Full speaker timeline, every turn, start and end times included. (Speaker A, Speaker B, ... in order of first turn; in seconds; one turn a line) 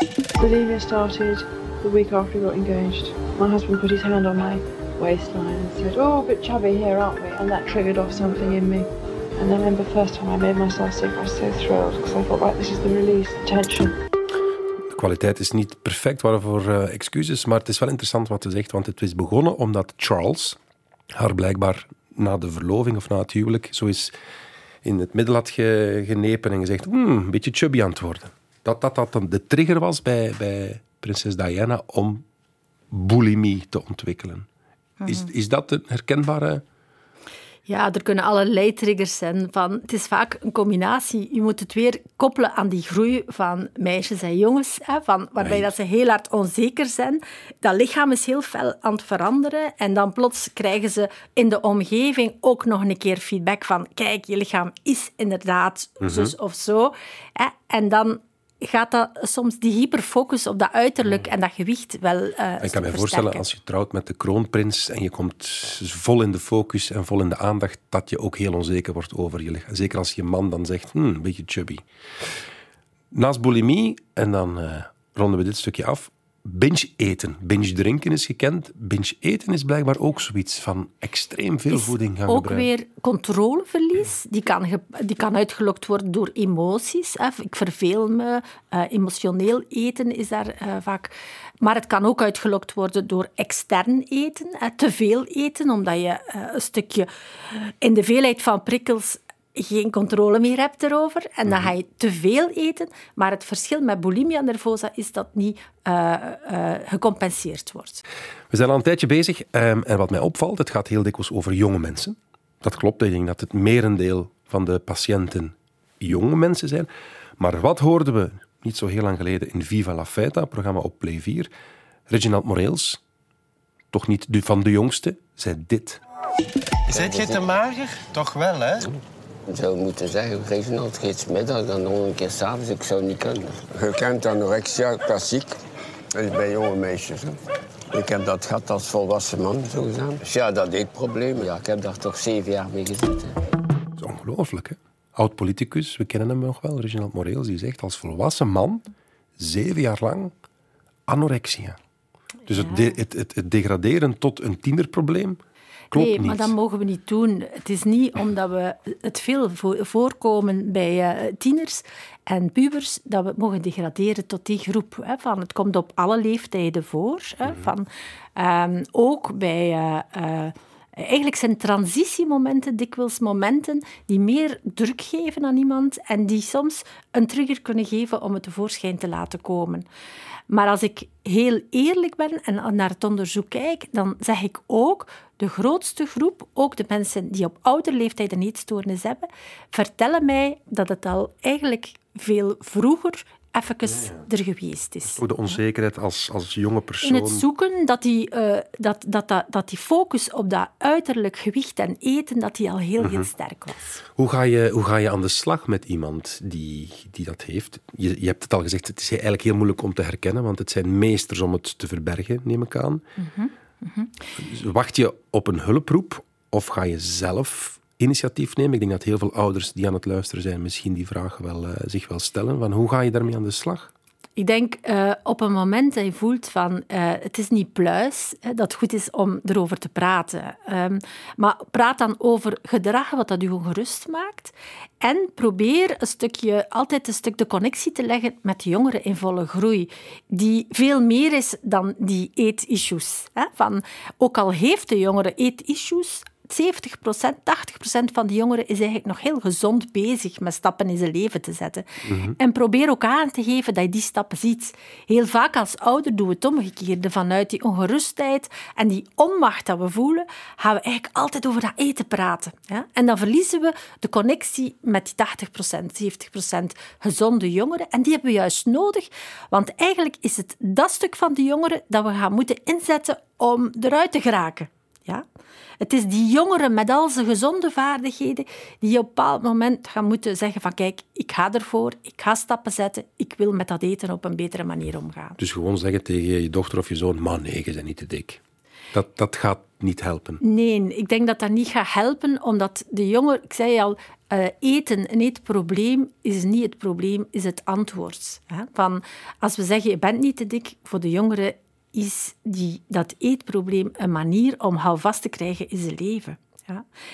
Speaker A: 0.4-14.0
Speaker B: 14.9-20.6
Speaker B: 21.1-24.1
Speaker B: 24.8-32.2
Speaker B: 32.9-34.5
Speaker C: 35.0-35.3
Speaker B: 35.0-36.6
Speaker C: 37.7-63.4
Speaker B: 45.4-45.7
Speaker B: 56.0-56.3
Speaker B: 62.6-71.8
Speaker B: 73.1-82.7
Speaker C: 81.7-108.0
Speaker B: 108.5-121.5
Speaker B: 122.1-123.0
Speaker B: 123.9-126.0
Speaker D: 126.9-128.9
Speaker E: 126.9-127.5
Speaker E: 129.5-135.6
Speaker E: 136.1-137.4
Speaker E: 137.9-143.3
Speaker B: 144.0-148.8
Speaker B: 149.4-150.3
Speaker B: 151.1-151.8
Speaker B: 152.5-155.4
Speaker B: 155.9-156.5
Speaker C: 155.9-179.9
Speaker C: 180.5-195.6
Speaker B: 193.9-194.2
Speaker B: 195.1-197.4
Speaker C: 197.0-204.0
Speaker B: 203.0-203.3
Speaker B: 204.2-213.0
Speaker C: 213.2-214.1
Speaker B: 214.4-223.9
Speaker C: 224.4-275.2
Speaker B: 252.1-252.3
Speaker C: 275.8-285.4
Speaker B: 285.4-288.4
Speaker B: 288.9-290.4
Speaker C: 290.4-306.9